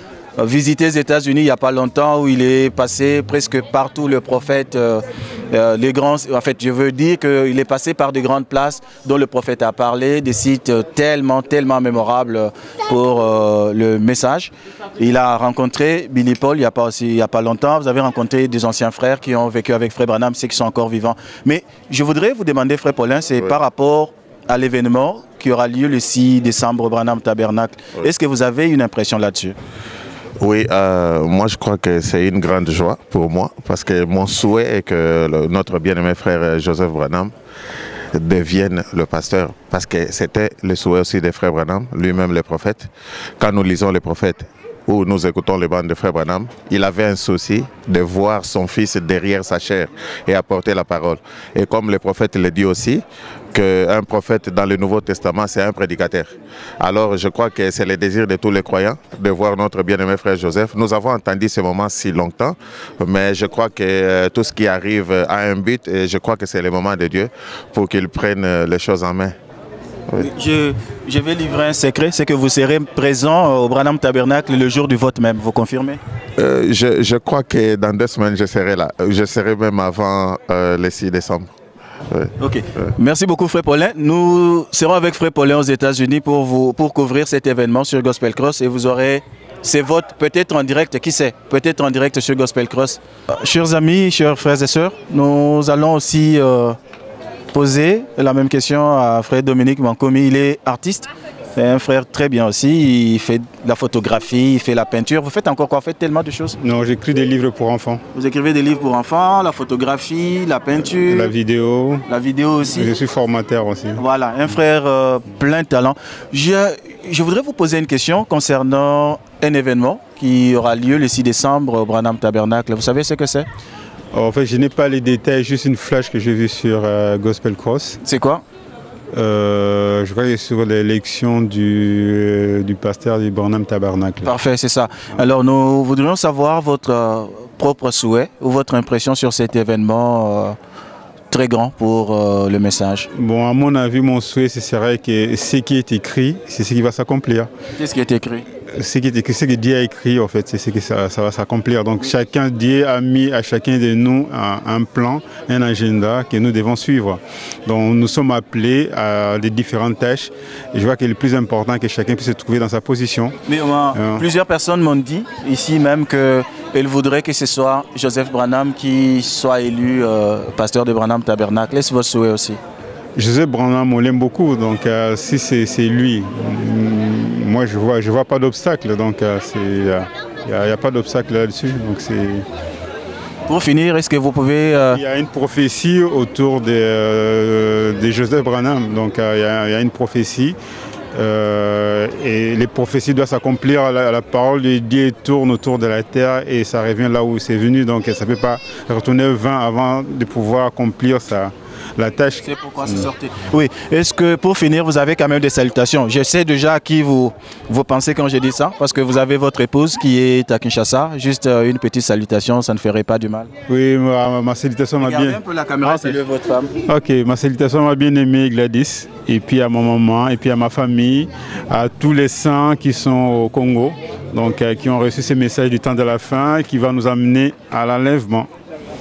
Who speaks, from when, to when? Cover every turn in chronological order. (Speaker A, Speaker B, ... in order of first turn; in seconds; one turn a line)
Speaker A: 0.4-29.6
Speaker B: 30.4-37.3
Speaker B: 38.1-69.3
Speaker A: 70.2-76.0
Speaker B: 76.4-81.5
Speaker A: 82.4-96.8
Speaker A: 97.5-106.6
Speaker C: 106.6-108.0
Speaker A: 108.1-111.3
Speaker C: 111.1-112.0
Speaker A: 112.1-112.9
Speaker C: 112.8-114.0
Speaker A: 114.0-123.5
Speaker C: 124.1-128.0
Speaker A: 128.0-128.4
Speaker C: 129.1-134.3
Speaker A: 134.2-140.6
Speaker A: 141.3-143.1
Speaker C: 143.1-147.5
Speaker A: 147.8-148.5
Speaker C: 148.8-163.3
Speaker A: 163.5-172.6
Speaker C: 163.9-164.2
Speaker C: 173.2-182.4
Speaker A: 183.5-185.0
Speaker C: 184.9-190.6
Speaker C: 191.2-203.1
Speaker A: 202.4-213.5
Speaker C: 213.7-216.2
Speaker A: 215.0-216.7
Speaker C: 216.9-228.5